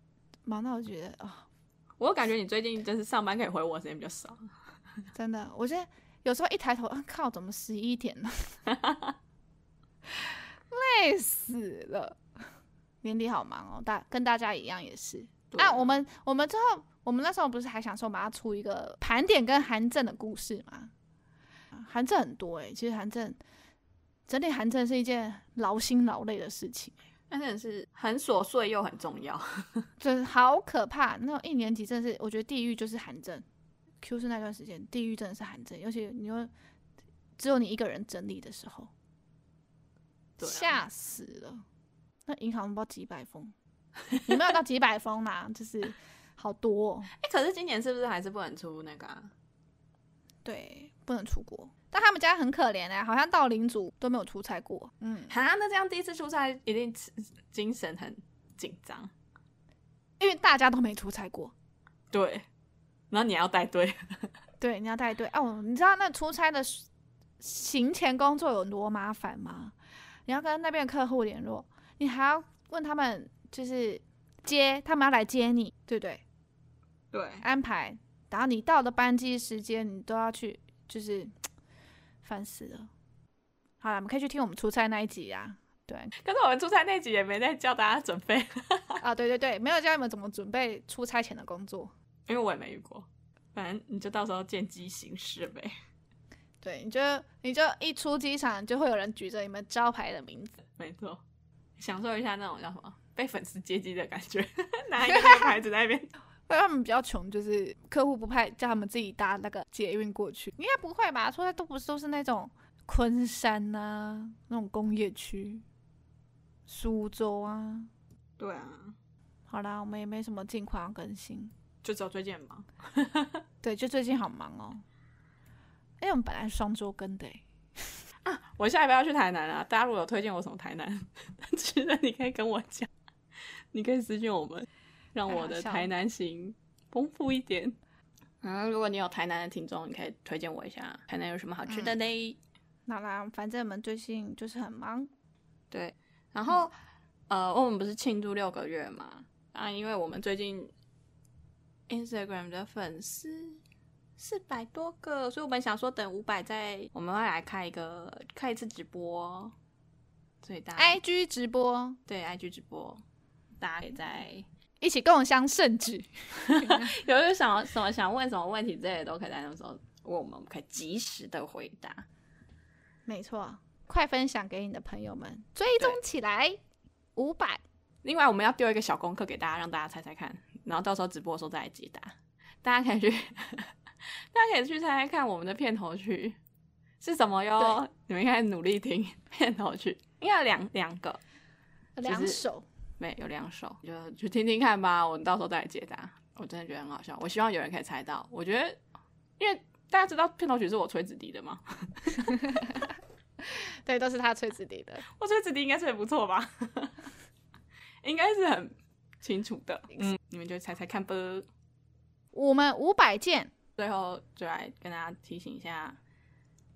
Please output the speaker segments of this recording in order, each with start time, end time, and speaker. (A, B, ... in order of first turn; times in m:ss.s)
0:00.5-0:01.5 A
0:02.0-0:04.5 B
0:05.1-0:08.6 A
0:08.7-0:09.2 B
0:10.2-0:12.2 A
0:13.0-0:20.9 A
0:15.5-0:16.0 B
0:21.7-0:23.4 A
0:24.3-0:27.0 A
0:27.3-0:29.9 B
0:30.0-0:33.4 A
0:34.0-0:36.5 A
0:37.4-0:38.9 A
0:40.4-0:40.8 B
0:40.4-0:41.6 A
0:42.3-0:43.5 A
0:44.2-0:47.1 A
0:47.1-0:49.3 B
0:50.4-0:55.3 A
0:55.3-0:59.1 B
1:00.2-1:01.5 A
1:02.1-1:02.5 B
1:03.1-1:04.3 B
1:04.6-1:06.9 A
1:07.4-1:09.8 A
1:10.3-1:16.2 A
1:17.1-1:17.4 B
1:17.4-1:21.3 A
1:22.2-1:22.9 A
1:23.8-1:26.1 A
1:26.2-1:29.0 B
1:29.0-1:31.9 A
1:32.3-1:35.8 B
1:36.6-1:40.6 A
1:40.8-1:41.2 B
1:41.8-1:46.1 B
1:45.0-1:45.6 A
1:46.5-1:55.6 A
1:56.7-1:57.9 A
1:58.4-1:59.0 B
1:59.5-2:01.5 A
2:01.8-2:03.4 B
2:03.6-2:04.8 A
2:06.0-2:08.0 A
2:08.2-2:12.9 B
2:13.5-2:17.8 B
2:15.3-2:15.9 A
2:18.4-2:22.4 B
2:21.7-2:22.0 A
2:22.9-2:25.1 A
2:25.7-2:26.7 B
2:27.3-2:30.7 B
2:31.9-2:33.6 B
2:34.2-2:39.5 B
2:40.4-2:41.0 B
2:40.8-2:42.0 A
2:42.1-2:43.0 B
2:43.6-2:44.5 B
2:44.8-2:47.0 A
2:46.4-2:52.1 B
2:53.1-2:56.6 A
2:57.2-2:57.6 A
2:58.0-3:03.7 B
3:04.3-3:06.4 B
3:07.0-3:11.2 B
3:12.0-3:12.7 A
3:12.0-3:12.4 B
3:13.0-3:18.8 B
3:19.4-3:22.4 B
3:22.3-3:22.7 A
3:23.5-3:25.0 A
3:25.1-3:27.1 B
3:28.0-3:31.5 B
3:32.3-3:33.5 A
3:33.8-3:36.0 B